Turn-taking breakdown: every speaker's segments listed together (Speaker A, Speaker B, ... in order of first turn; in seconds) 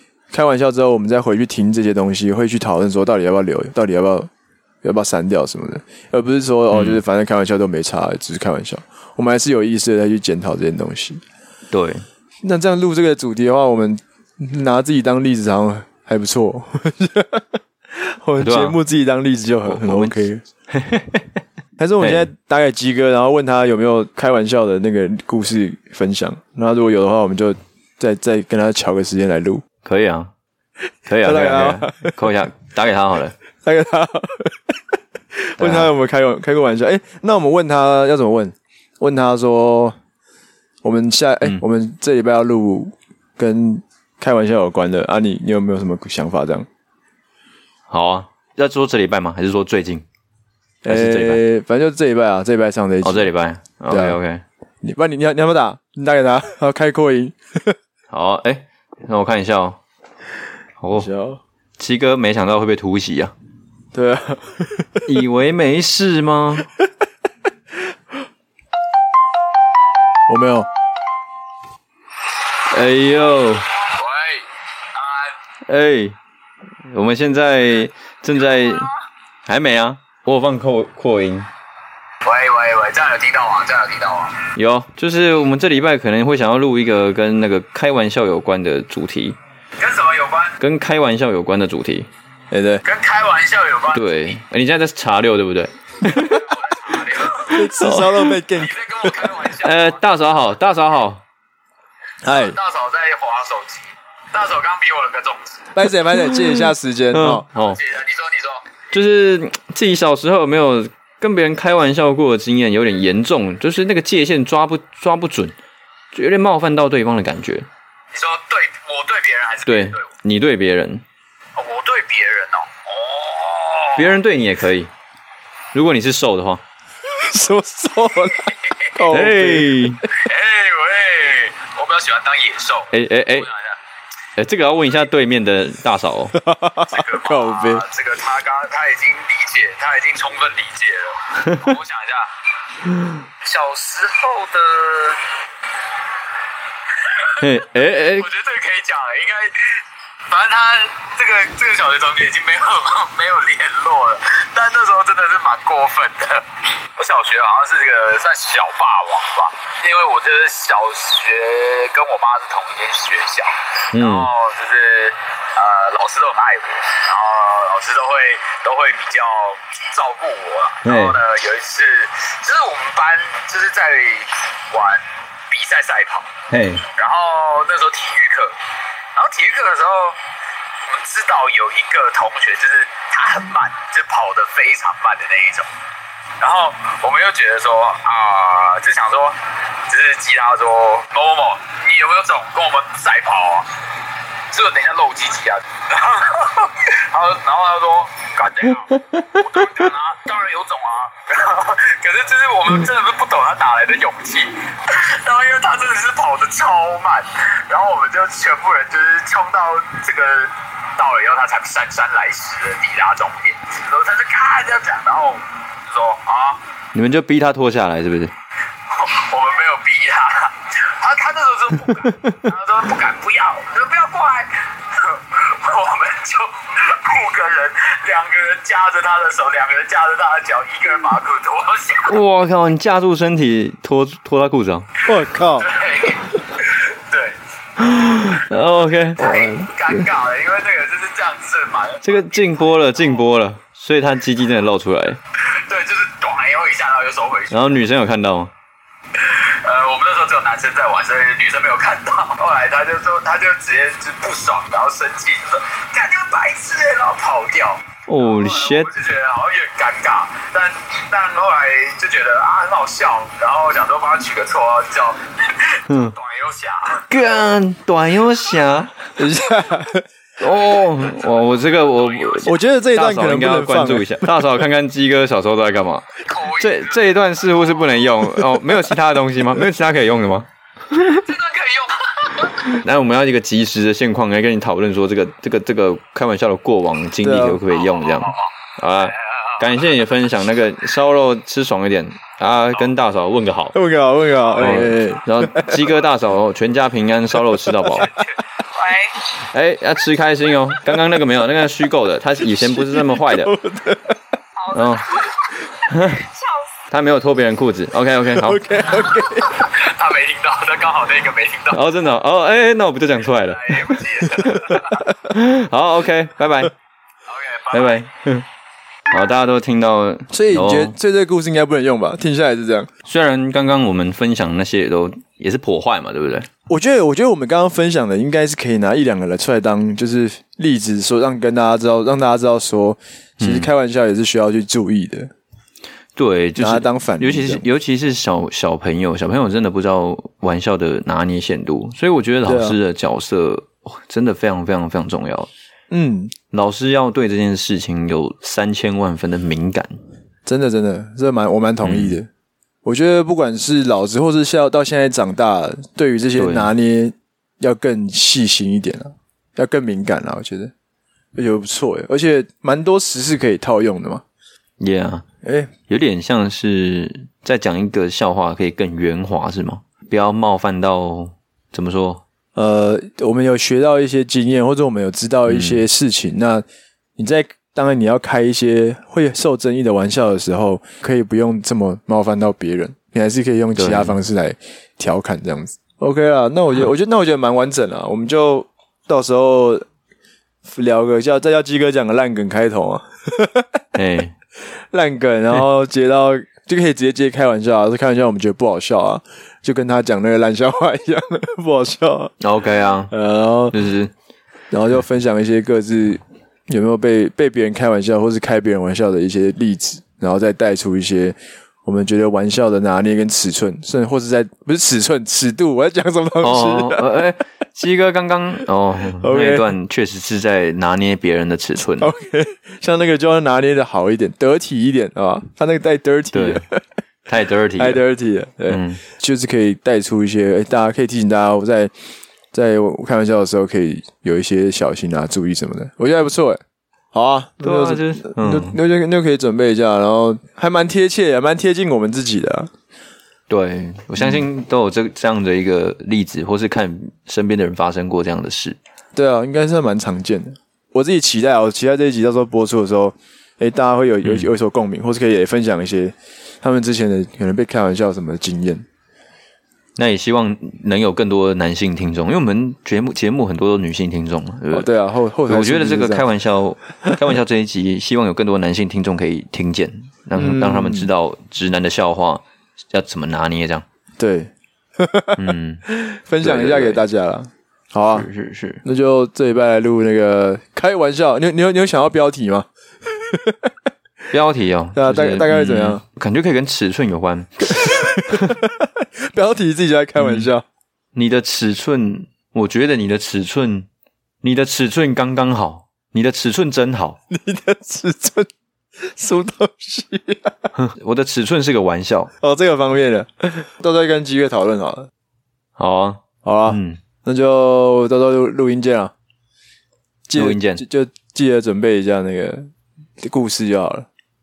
Speaker A: 0.3-4.3, 4.8-11.2, 12.4-20.4, 21.8-29.6, 31.2-32.1, 33.6-34.8, 35.3-40.0, 40.8-46.7, 50.8-53.3, 53.9-54.2, 54.8-57.8, 61.0-61.4, 63.9-65.1, 70.3-70.7, 92.5-92.8, 97.3-99.5, 102.2-102.6, 105.8-107.5, 127.1-129.8, 136.3-137.9, 235.0-235.7, 269.2-270.1, 272.4-274.2, 287.2-287.6, 293.7-295.9, 297.6-298.0, 302.5-304.2, 308.3-309.7, 320.3-322.9, 326.7-335.3, 336.6-337.6, 342.4-342.8, 345.9-346.3, 350.4-352.3, 352.9-360.7, 361.4-364.2, 365.4-365.7, 372.6-376.6, 377.2-389.9, 390.7-393.8, 394.8-402.4, 403.1-403.8, 404.7-417.1, 419.1-419.7, 422.0-426.8, 427.8-431.9, 432.5-436.6, 437.1-442.7, 444.2-444.4, 449.2-458.9, 464.7-466.3, 470.4-471.1, 474.2-478.3, 478.8-483.7, 484.9-486.0, 487.6-490.6, 497.3-498.5, 499.0-500.5, 502.4-505.1, 506.4-509.1, 510.3-514.1
Speaker B: 6.7-7.0, 11.7-12.1, 18.4-18.8, 19.6-21.4, 22.0-22.3, 29.8-30.3, 31.1-33.4, 35.6-35.9, 47.9-50.0, 50.9-51.4, 53.0-54.4, 58.1-59.8, 60.8-61.1, 61.8-63.3, 65.1-66.7, 72.7-73.7, 75.7-76.2, 76.9-78.9, 79.5-81.5, 84.6-89.4, 90.6-92.1, 93.9-96.6, 97.5-98.4, 99.5-101.2, 106.2-106.6, 107.1-107.8, 108.9-115.6, 116.1-117.7, 119.6-121.0, 124.0-124.9, 125.7-126.6, 129.1-130.1, 132.9-133.5, 134.4-136.4, 141.4-141.8, 142.9-143.2, 147.4-148.3, 163.9-164.3, 170.8-171.2, 176.5-176.9, 198.7-199.8, 216.9-218.3, 221.8-222.5, 232.1-234.9, 237.8-240.1, 242.0-245.2, 247.5-248.5, 258.1-258.9, 265.9-266.1, 267.1-269.0, 270.4-281.2, 282.6-293.8, 294.6-298.1, 299.5-303.5, 304.7-305.2, 305.9-306.3, 306.9-308.9, 311.7-316.7, 317.7-318.5, 319.1-320.9, 323.1-326.5, 333.4-333.7, 336.2-345.5, 346.5-350.0, 351.8-352.2, 356.4-356.7, 364.8-365.3, 365.9-372.2, 375.5-375.9, 383.8-384.2, 393.9-394.4, 402.4-403.1, 403.7-404.1, 416.4-422.1, 426.3-426.7, 427.3-428.0, 428.7-429.0, 437.6-438.8, 443.5-448.8, 460.0-464.9, 465.5-473.9, 475.4-475.8, 476.4-477.0, 478.1-478.8, 484.3-488.6, 490.2-490.5, 491.1-493.9, 494.4-497.2, 500.8-502.3, 505.8-507.0, 510.4-510.8
Speaker C: 73.9-75.3, 78.6-78.9, 82.2-84.5, 89.8-90.6, 92.8-94.2, 96.1-97.6, 98.5-100.0, 102.3-105.6, 107.6-108.6, 118.1-120.1, 121.6-124.2, 130.1-133.8, 136.9-142.3, 143.4-145.2, 147.0-147.5, 148.1-176.3, 177.0-178.6, 179.2-180.2, 180.9-185.7, 186.4-189.4, 189.9-193.7, 194.5-216.6, 218.9-232.2, 235.6-238.4, 239.2-243.2, 245.4-247.7, 249.2-267.1, 270.5-272.5, 276.2-277.7, 281.1-282.6, 287.7-288.5, 289.0-289.7, 298.2-299.2, 304.6-305.6, 306.1-306.6, 309.3-311.9, 313.4-315.0, 317.3-318.0